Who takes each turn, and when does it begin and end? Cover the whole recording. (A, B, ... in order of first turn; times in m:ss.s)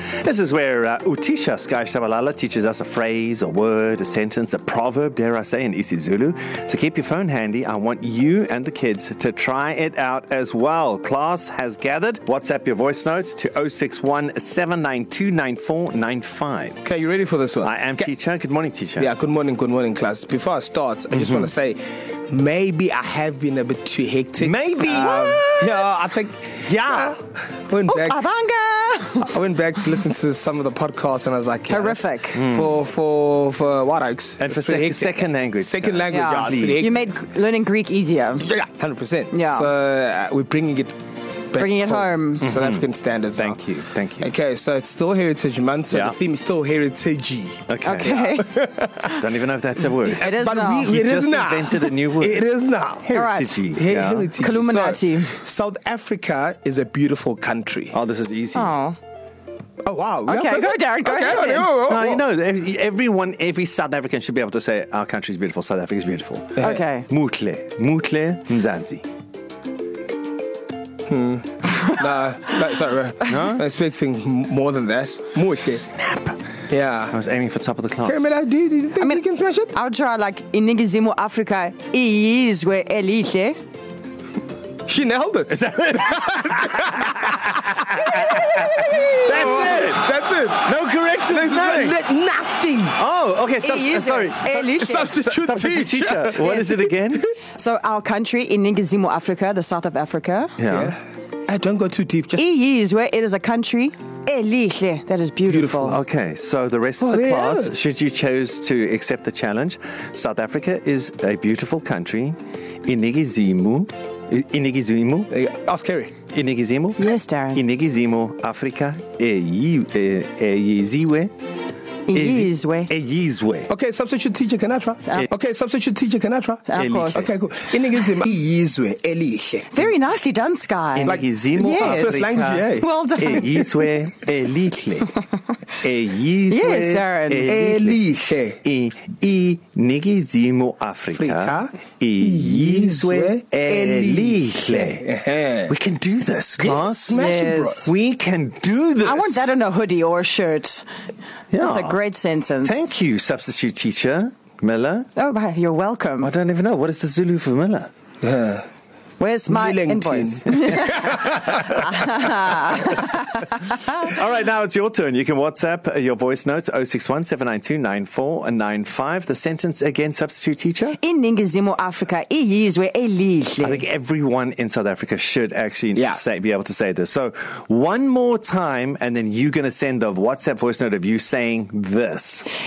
0:00.2-0:16.8 A
0:16.8-0:18.1 B
0:17.6-0:19.1 A
0:19.0-0:28.2 B
0:21.1-0:21.5 A
0:24.4-0:27.2 A
0:27.9-0:29.3 C
0:29.2-0:37.2 B
0:31.7-0:32.4 C
0:32.3-0:32.7 A
0:34.4-0:36.9 A
0:36.1-0:38.5 C
0:38.4-0:41.0 B
0:39.3-0:39.7 C
0:41.5-0:49.1 B
0:41.6-0:42.5 C
0:42.4-0:44.3 A
0:45.9-0:46.2 A
0:47.7-0:48.3 A
0:47.8-0:48.5 C
0:49.0-0:50.3 A
0:50.1-0:51.0 C
0:50.2-0:53.1 B
0:50.9-0:52.5 A
0:53.0-0:54.3 A
0:53.1-0:53.6 C
0:53.7-0:58.0 B
0:54.4-0:55.4 C
0:57.9-0:58.7 A
0:58.6-0:59.0 C
0:59.8-1:02.2 B
1:00.3-1:01.7 C
1:01.8-1:09.0 A
1:06.6-1:07.1 C
1:11.1-1:15.9 B
1:13.3-1:13.6 A
1:15.7-1:16.4 A
1:16.7-1:17.1 B
1:17.1-1:18.2 A
1:18.0-1:19.7 B
1:19.0-1:23.6 C
1:24.9-1:33.0 B
1:25.5-1:32.0 A
1:28.6-1:29.1 C
1:33.0-1:37.3 A
1:33.6-1:35.2 C
1:34.6-1:36.8 B
1:36.4-1:36.7 C
1:37.6-1:40.6 C
1:40.6-1:40.9 A
1:40.7-1:42.4 B
1:42.4-1:46.0 C
1:45.5-1:46.0 B
1:45.8-1:55.3 A
1:47.0-1:47.7 B
1:55.3-1:56.1 B
1:56.3-2:01.3 A
1:57.0-1:57.6 C
2:02.1-2:02.9 C
2:02.1-2:03.7 A
2:03.7-2:09.8 B
2:06.7-2:07.3 C
2:06.7-2:07.3 A
2:09.7-2:13.7 C
2:10.9-2:15.1 A
2:11.1-2:13.7 B
2:15.8-2:18.0 A
2:16.5-2:17.5 C
2:17.5-2:18.6 B
2:18.6-2:25.1 A
2:21.1-2:25.8 B
2:25.7-2:29.5 A
2:26.6-2:27.9 B
2:27.1-2:27.9 C
2:29.0-2:30.8 C
2:31.5-2:32.0 A
2:31.6-2:32.9 C
2:32.6-2:35.1 A
2:35.2-2:36.3 C
2:36.2-2:37.9 A
2:38.2-2:38.6 B
2:39.2-2:43.6 C
2:39.5-2:41.3 B
2:40.6-2:42.9 A
2:43.9-2:51.0 A
2:51.0-2:53.8 C
2:53.6-3:02.5 A
2:55.9-2:56.2 B